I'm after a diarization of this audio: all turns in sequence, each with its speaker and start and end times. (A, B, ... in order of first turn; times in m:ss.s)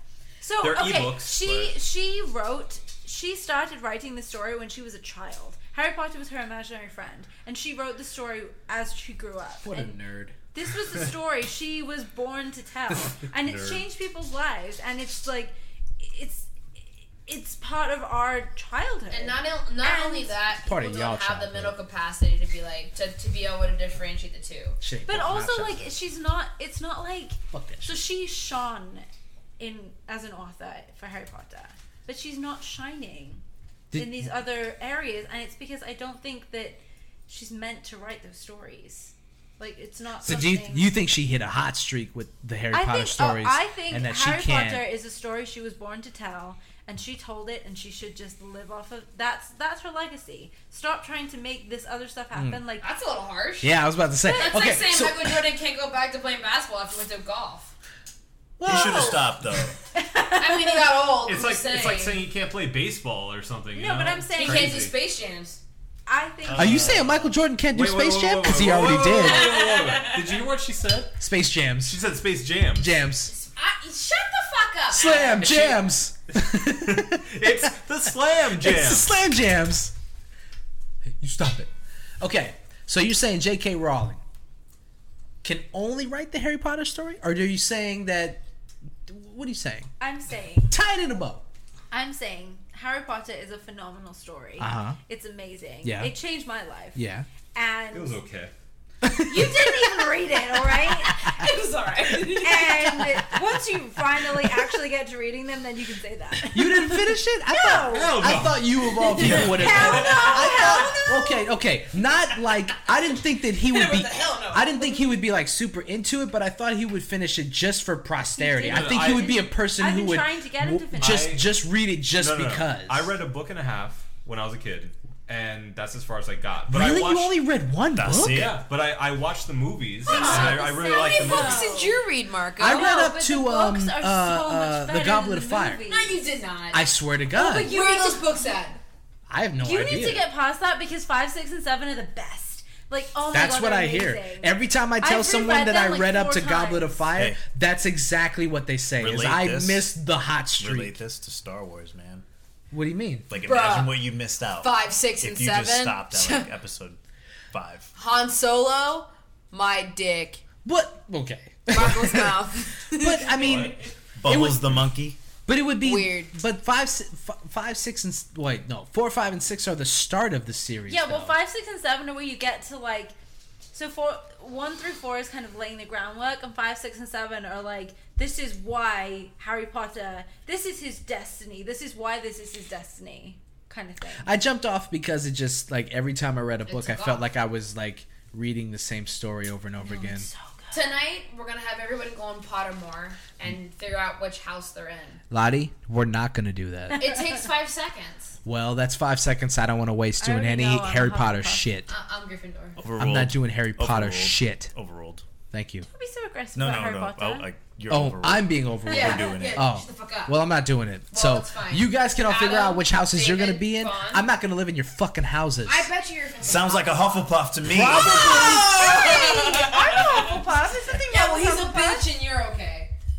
0:00.4-0:10.0 A
0:00.6-0:01.7 B
0:09.6-0:10.4 C
0:10.5-0:16.5 A
0:13.3-0:13.8 B
0:17.2-0:20.4 A
0:19.1-0:24.8 D
0:20.6-0:21.8 C
0:24.8-0:25.9 C
0:25.0-0:29.0 A
0:27.5-0:28.0 C
0:29.6-0:41.0 A
0:33.9-0:34.4 C
0:40.2-0:44.8 C
0:42.7-0:52.9 A
0:52.3-0:52.6 C
0:52.8-0:57.7 D
0:53.6-0:55.5 C
0:54.2-0:54.7 A
0:58.6-0:59.2 C
0:58.6-0:59.8 E
1:00.0-1:01.0 A
1:00.2-1:02.3 D
1:01.2-1:04.9 B
1:03.7-1:04.9 A
1:04.3-1:05.6 D
1:06.1-1:07.0 A
1:06.4-1:11.2 B
1:06.5-1:09.6 C
1:09.2-1:10.4 D
1:11.2-1:12.0 C
1:11.8-1:13.0 B
1:12.8-1:13.3 C
1:13.3-1:15.6 D
1:14.9-1:17.8 C
1:15.1-1:19.2 B
1:18.5-1:19.9 C
1:21.2-1:24.2 C
1:25.4-1:28.4 C
1:29.0-1:29.9 C
1:30.0-1:30.8 A
1:30.7-1:31.4 C
1:31.9-1:38.2 A
1:34.6-1:35.0 C
1:35.8-1:36.2 C
1:36.9-1:37.3 C
1:37.9-1:38.5 B
1:39.0-1:40.1 C
1:39.2-1:41.4 A
1:41.0-1:41.3 C
1:41.1-1:43.0 D
1:42.3-1:48.4 A
1:46.5-2:03.2 C
1:47.8-1:50.7 B
1:49.0-1:51.3 A
1:50.0-1:51.4 D
1:53.7-1:55.1 D
1:58.4-2:01.4 A
1:58.6-1:59.4 B
2:00.9-2:01.6 B
2:02.1-2:07.4 B
2:06.7-2:08.5 C
2:07.9-2:08.6 E
2:08.2-2:11.7 B
2:10.0-2:12.0 A
2:10.0-2:13.2 D
2:12.6-2:15.8 C
2:12.6-2:16.2 A
2:15.9-2:18.8 D
2:16.7-2:17.8 C
2:17.3-2:18.4 A
2:19.3-2:20.3 C
2:19.6-2:27.0 A
2:23.3-2:31.0 C
2:27.1-2:27.4 E
2:29.0-2:29.9 E
2:30.6-2:32.2 E
2:32.7-2:33.3 C
2:33.3-2:37.0 E
2:33.3-2:36.5 D
2:37.5-2:37.9 E
2:37.9-2:40.4 D
2:40.6-2:44.9 C
2:41.7-2:43.6 D
2:43.4-2:43.7 B
2:44.2-2:45.2 E
2:45.4-2:51.4 C
2:45.8-2:46.3 D
2:50.9-2:53.1 A
2:53.7-3:04.3 A
3:04.2-3:10.3 C
3:06.7-3:07.3 D
3:09.8-3:10.9 A
3:10.7-3:15.2 D
3:15.3-3:17.2 C
3:17.0-3:18.4 D
3:18.4-3:21.9 C
3:20.2-3:21.8 A
3:21.9-3:22.8 D
3:22.8-3:25.2 E
3:23.0-3:24.7 C
3:25.5-3:25.9 C
3:25.8-3:27.5 A
3:26.5-3:29.7 E
3:27.9-3:35.9 C
3:28.9-3:30.4 D
3:31.1-3:34.2 D
3:35.6-3:37.3 D
3:36.4-3:38.4 E
3:37.6-3:39.3 C
3:37.9-3:40.5 D
3:38.2-3:42.1 A
3:41.0-3:42.9 D